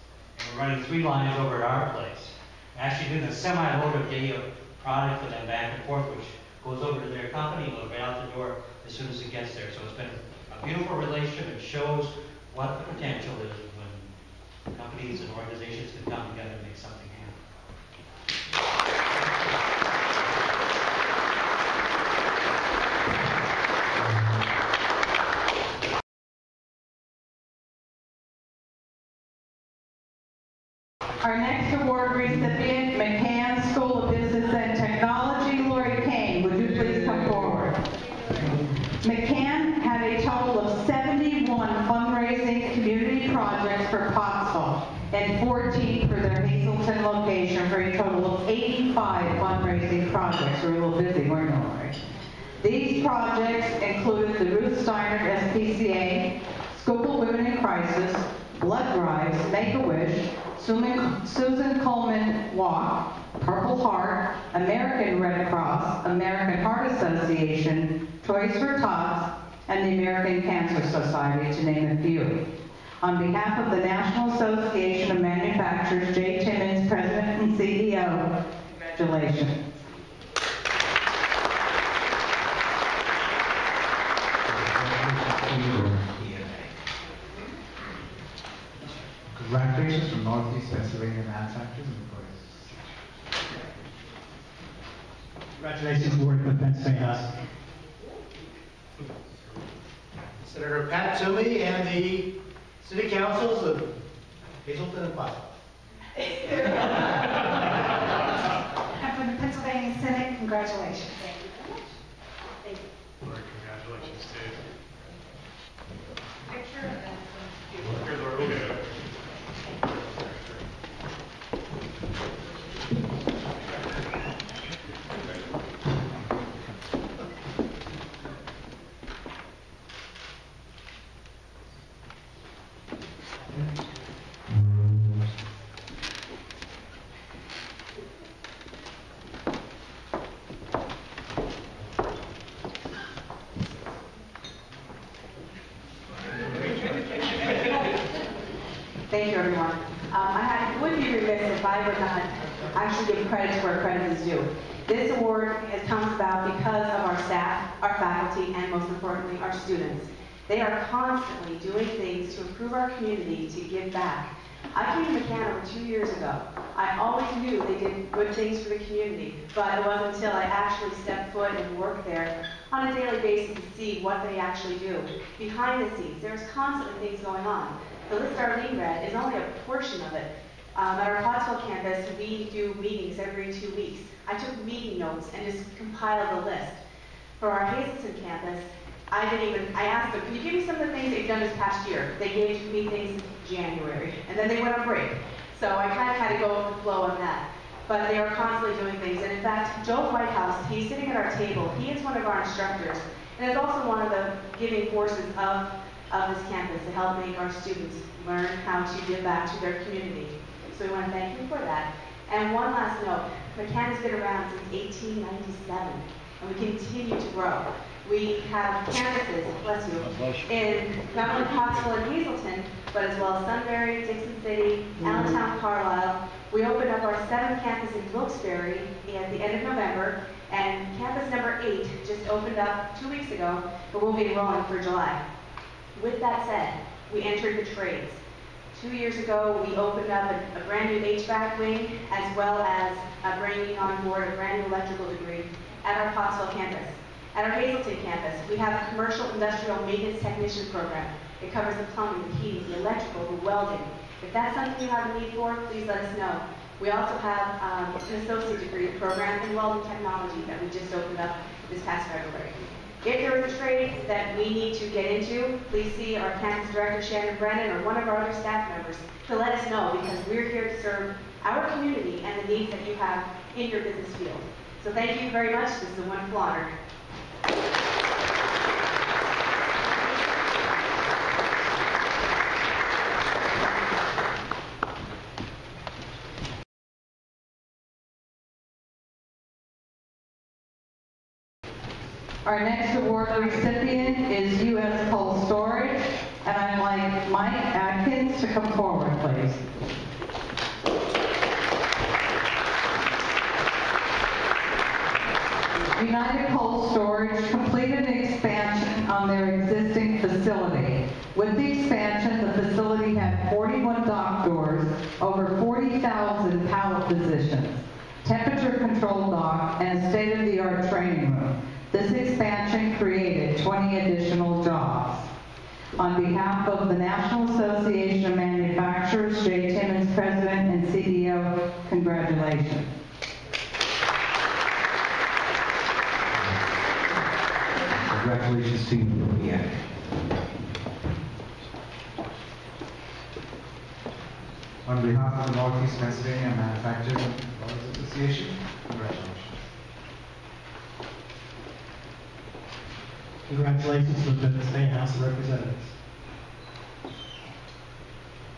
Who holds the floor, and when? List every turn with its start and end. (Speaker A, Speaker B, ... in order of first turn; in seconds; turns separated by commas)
Speaker A: 0.4-14.1, Speaker A: 14.7-17.4, Speaker B: 31.2-37.7, Speaker B: 39.0-51.9, Speaker B: 52.6-72.4, Speaker B: 73.0-78.3, Speaker B: 78.9-79.6, Speaker C: 84.5-86.7, Speaker D: 89.3-92.9, Speaker E: 95.6-97.3, Speaker F: 100.4-103.9, Speaker F: 104.6-105.5, Speaker G: 109.0-111.7, Speaker H: 113.2-114.6, Speaker H: 117.8-119.1, Speaker H: 119.6-120.7, Speaker I: 149.1-186.8, Speaker I: 187.4-235.2, Speaker I: 235.9-238.2, Speaker I: 238.7-276.7, Speaker B: 292.4-299.6, Speaker B: 305.9-325.3, Speaker B: 326.0-332.9, Speaker C: 338.1-339.8, Speaker D: 344.8-349.5, Speaker E: 353.5-355.9